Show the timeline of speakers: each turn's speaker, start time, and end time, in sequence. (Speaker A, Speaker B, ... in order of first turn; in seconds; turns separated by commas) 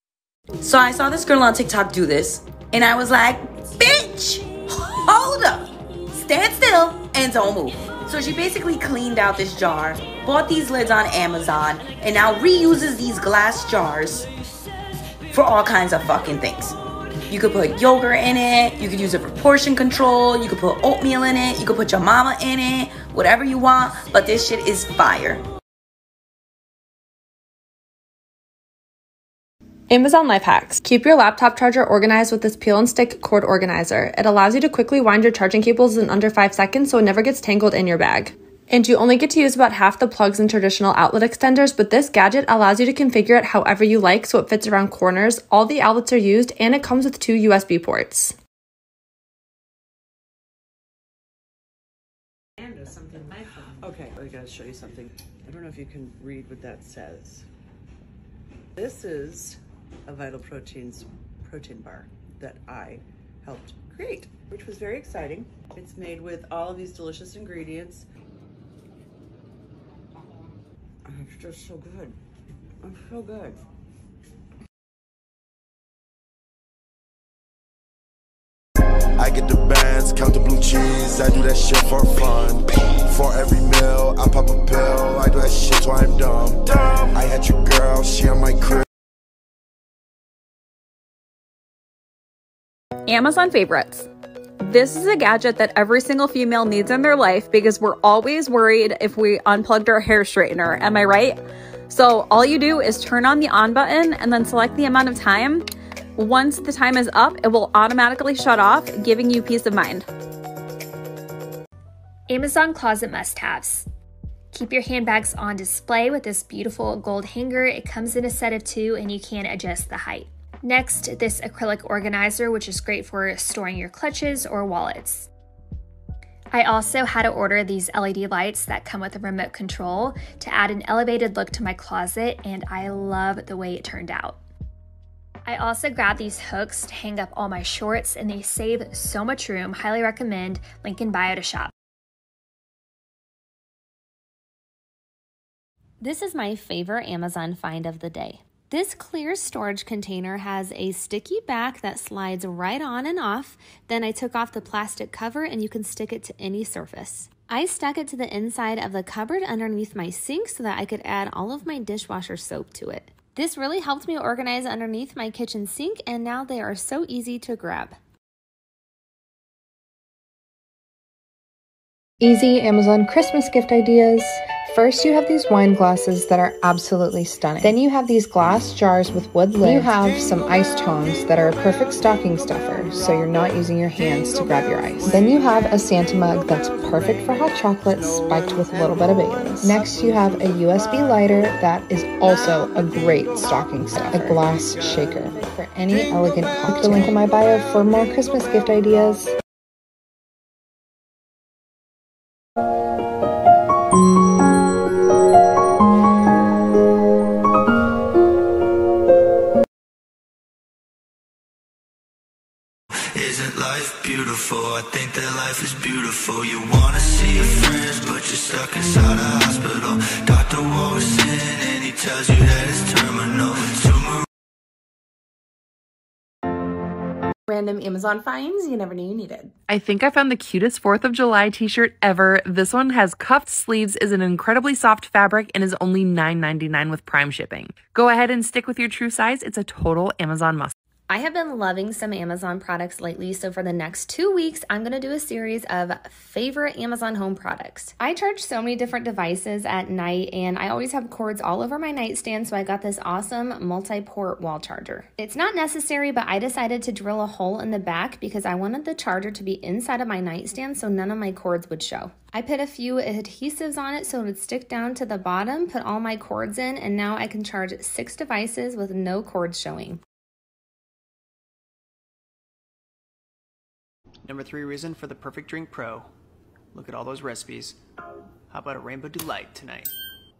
Speaker A: 0.6-4.5, Speaker A: 5.0-14.3, Speaker A: 15.3-16.7, Speaker A: 17.3-25.4, Speaker B: 29.9-48.3, Speaker C: 53.2-57.4, Speaker C: 58.8-68.0, Speaker C: 71.1-72.1, Speaker C: 72.9-73.5, Speaker D: 79.2-88.8, Speaker E: 93.1-94.0, Speaker E: 94.7-101.3, Speaker E: 101.9-105.6, Speaker E: 106.2-110.0, Speaker F: 112.3-113.9, Speaker F: 114.5-125.3, Speaker F: 126.5-134.4, Speaker F: 135.4-141.7, Speaker G: 146.0-167.9, Speaker H: 172.2-199.3, Speaker I: 213.2-224.1, Speaker J: 227.6-230.9, Speaker K: 229.7-240.5, Speaker J: 231.6-232.4, Speaker J: 233.2-240.6, Speaker G: 241.1-270.0, Speaker L: 274.2-276.1, Speaker L: 276.7-277.8, Speaker L: 278.5-279.9